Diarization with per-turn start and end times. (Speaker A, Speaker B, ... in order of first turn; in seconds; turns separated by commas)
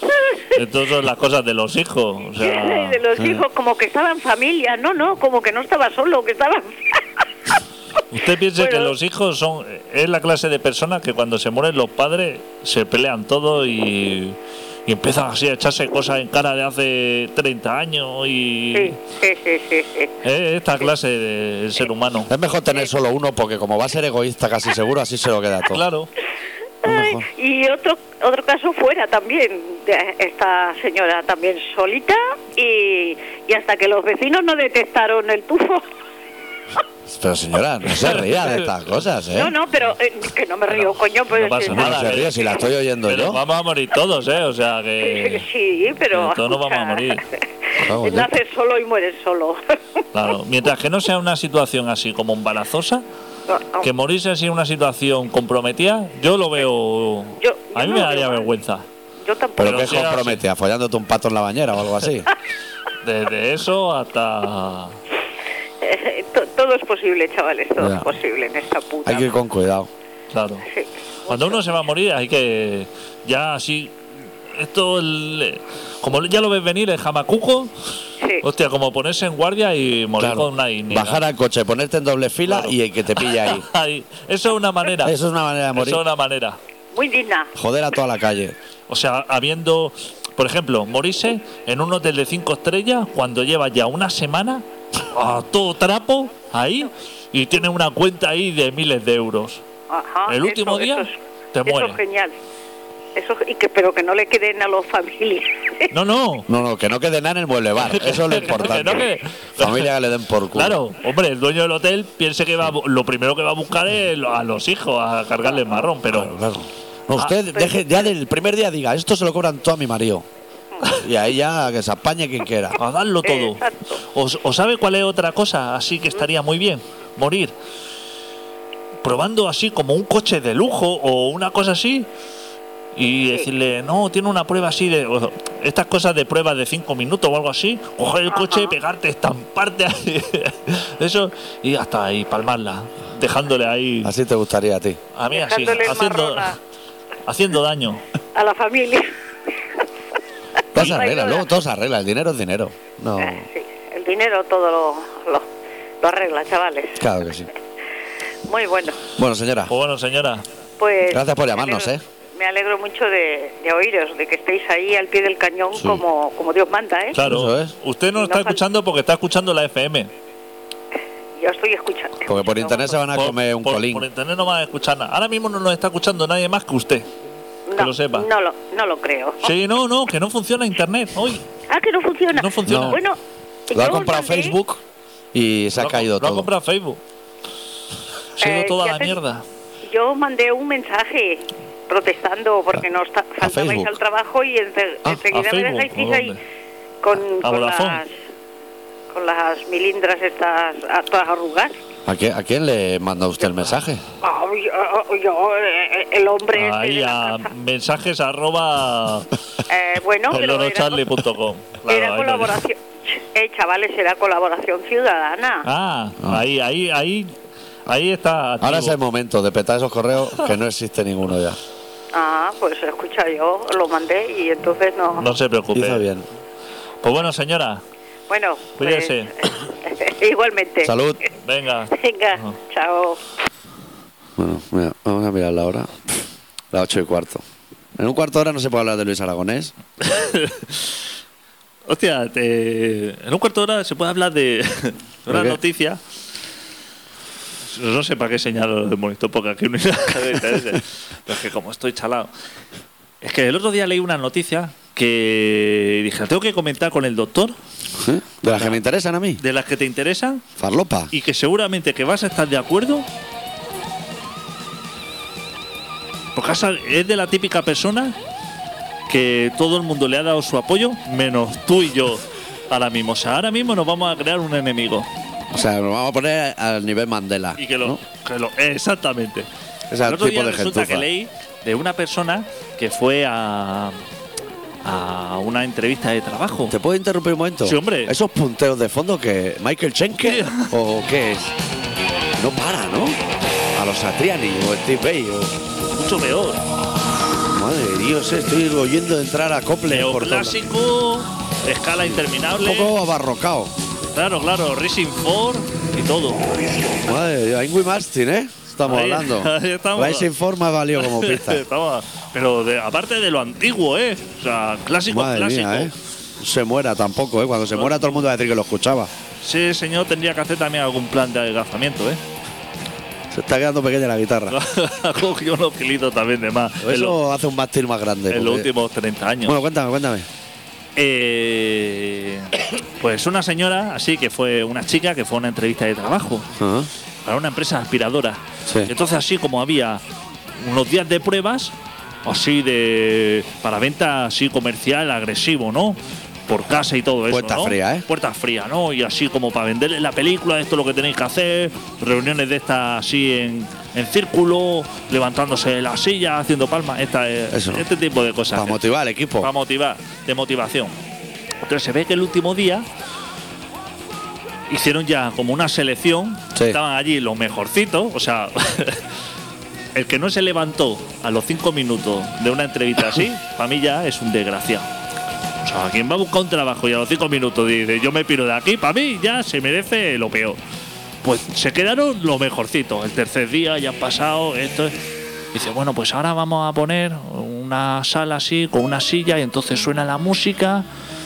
Speaker A: 0.5-3.0, Speaker B: 2.4-7.0, Speaker A: 8.1-19.0, Speaker B: 8.6-8.9, Speaker B: 18.7-20.2, Speaker A: 20.2-22.3, Speaker C: 22.3-25.8, Speaker A: 25.7-26.1, Speaker B: 26.8-35.9, Speaker C: 26.8-27.3, Speaker C: 37.1-39.5, Speaker A: 38.0-38.6, Speaker B: 39.3-41.9, Speaker A: 40.7-42.4, Speaker C: 41.7-43.4, Speaker A: 43.1-45.5, Speaker B: 45.0-49.6, Speaker A: 46.1-47.2, Speaker C: 47.8-48.3, Speaker A: 50.1-53.0, Speaker B: 53.5-53.9, Speaker A: 53.8-58.9, Speaker B: 57.4-58.5, Speaker B: 59.2-59.9, Speaker C: 59.6-62.3, Speaker A: 59.6-60.4, Speaker A: 63.0-65.0, Speaker B: 65.8-69.3, Speaker C: 67.8-68.1, Speaker C: 69.0-69.9, Speaker A: 70.3-70.7, Speaker B: 70.7-71.7, Speaker A: 71.3-74.0, Speaker A: 74.5-77.8, Speaker A: 78.4-81.2, Speaker C: 80.2-83.7, Speaker A: 82.5-85.1, Speaker C: 85.0-86.0, Speaker A: 85.7-86.6, Speaker B: 86.9-87.5, Speaker C: 87.5-88.5, Speaker A: 88.9-99.6, Speaker B: 99.9-102.4, Speaker A: 100.3-102.0, Speaker B: 103.2-105.9, Speaker A: 105.9-106.5, Speaker C: 106.5-110.8, Speaker A: 107.8-109.9, Speaker A: 110.5-116.3, Speaker C: 116.1-120.3, Speaker B: 117.6-117.8, Speaker C: 121.0-122.8, Speaker A: 122.8-127.5, Speaker B: 123.2-124.0, Speaker A: 129.0-132.1, Speaker A: 133.0-144.1, Speaker B: 138.3-138.8, Speaker C: 144.0-145.0, Speaker A: 145.1-146.6, Speaker B: 145.3-146.6, Speaker A: 147.3-148.0, Speaker B: 148.3-149.1, Speaker B: 150.7-151.5, Speaker C: 150.7-153.4, Speaker B: 153.2-155.5, Speaker B: 156.0-157.1, Speaker C: 157.0-157.5, Speaker B: 158.5-159.0, Speaker C: 159.2-159.7, Speaker A: 159.7-160.4, Speaker B: 160.8-167.2, Speaker C: 161.1-162.0, Speaker C: 165.8-166.0, Speaker A: 167.1-170.1, Speaker C: 167.2-167.7, Speaker B: 168.2-168.6, Speaker B: 171.4-173.0, Speaker C: 172.3-174.1, Speaker A: 173.1-177.1, Speaker B: 177.7-179.5, Speaker A: 177.8-178.3, Speaker A: 179.4-181.4, Speaker B: 181.7-183.2, Speaker A: 182.4-183.0, Speaker C: 182.7-183.0, Speaker B: 183.7-184.6, Speaker C: 183.7-184.8, Speaker C: 185.3-186.5, Speaker A: 185.8-187.0, Speaker A: 188.4-189.4, Speaker B: 188.4-189.2, Speaker B: 189.9-196.4, Speaker C: 193.4-193.9, Speaker A: 195.3-196.4, Speaker B: 197.0-198.1, Speaker A: 197.4-198.0, Speaker B: 199.1-201.8, Speaker C: 202.1-204.0, Speaker B: 204.2-207.5, Speaker A: 206.6-209.3, Speaker B: 209.7-211.0, Speaker A: 210.3-212.6, Speaker B: 211.9-215.7, Speaker A: 215.7-217.3, Speaker A: 217.9-219.0, Speaker C: 218.6-221.6, Speaker B: 222.1-225.3, Speaker A: 225.2-226.1, Speaker C: 225.7-226.3, Speaker A: 227.0-227.8, Speaker B: 228.3-230.9, Speaker A: 228.8-229.4, Speaker C: 230.8-231.2, Speaker A: 231.4-232.6, Speaker B: 231.9-233.2, Speaker C: 234.4-236.1, Speaker C: 236.7-237.4, Speaker C: 238.0-239.7, Speaker A: 240.0-241.0, Speaker A: 241.9-246.0, Speaker C: 245.3-245.6, Speaker A: 247.7-252.3, Speaker A: 253.2-257.6, Speaker C: 258.0-259.4, Speaker A: 258.5-258.8, Speaker A: 259.4-260.4, Speaker C: 260.6-261.1, Speaker A: 261.1-263.1, Speaker A: 266.4-268.2, Speaker A: 269.1-275.1, Speaker C: 275.5-278.0, Speaker A: 277.6-279.5, Speaker C: 279.9-281.1, Speaker A: 280.0-284.0, Speaker A: 284.8-286.8, Speaker C: 286.7-291.5, Speaker A: 287.6-288.1, Speaker A: 290.2-290.7, Speaker C: 292.4-293.2, Speaker C: 293.8-295.5, Speaker A: 295.9-296.6, Speaker C: 297.5-300.6, Speaker A: 299.9-302.9, Speaker C: 302.0-303.7, Speaker A: 304.1-306.5, Speaker C: 307.0-311.6, Speaker A: 308.8-310.3, Speaker A: 311.0-315.9, Speaker C: 315.1-319.1, Speaker A: 317.7-318.2, Speaker A: 319.4-322.2, Speaker C: 323.3-324.6, Speaker A: 324.5-327.2, Speaker C: 326.8-328.7, Speaker A: 328.3-329.6, Speaker C: 329.4-330.3, Speaker A: 331.0-336.5, Speaker C: 336.6-336.9, Speaker A: 337.2-340.0, Speaker C: 338.7-338.9, Speaker A: 340.6-358.8, Speaker C: 347.3-348.1, Speaker C: 357.5-357.9, Speaker C: 358.5-359.5, Speaker A: 359.4-360.9, Speaker A: 361.6-362.9, Speaker A: 364.7-369.1, Speaker A: 369.9-374.9, Speaker A: 375.6-380.6, Speaker A: 381.2-385.0, Speaker A: 385.5-390.9